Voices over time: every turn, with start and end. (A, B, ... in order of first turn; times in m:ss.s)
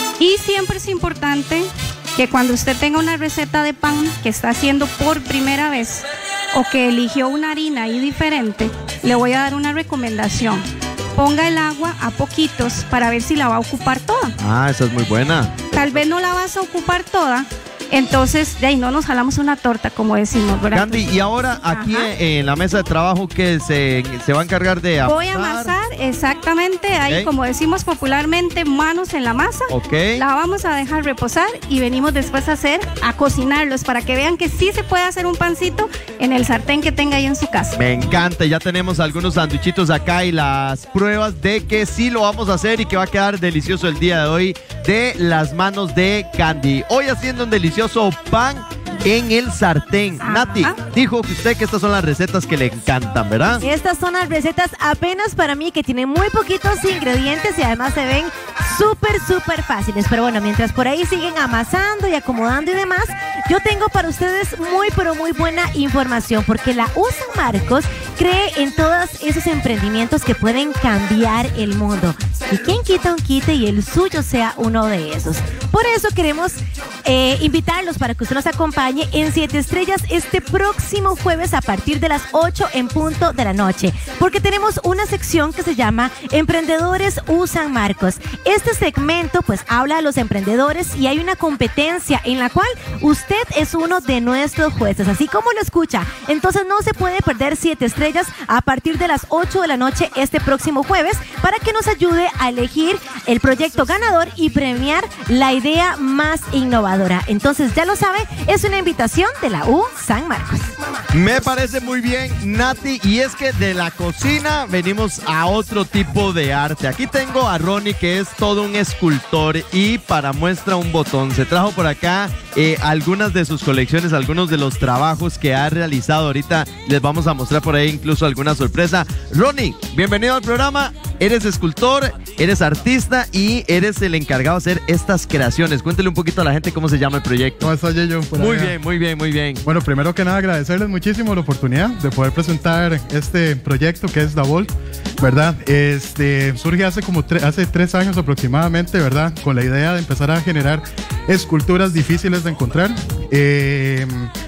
0:00.2-0:14.3 A
0:14.4-0:16.0 B
0:15.7-0:22.1 A
0:20.7-0:25.7 B
0:25.0-0:37.8 A
0:29.7-0:30.2 B
0:37.8-0:53.6 B
0:50.2-0:50.8 A
0:53.6-1:50.7 C
1:51.1-2:17.7 B
2:17.6-2:18.7 D
2:18.4-2:19.6 B
2:19.6-2:34.3 D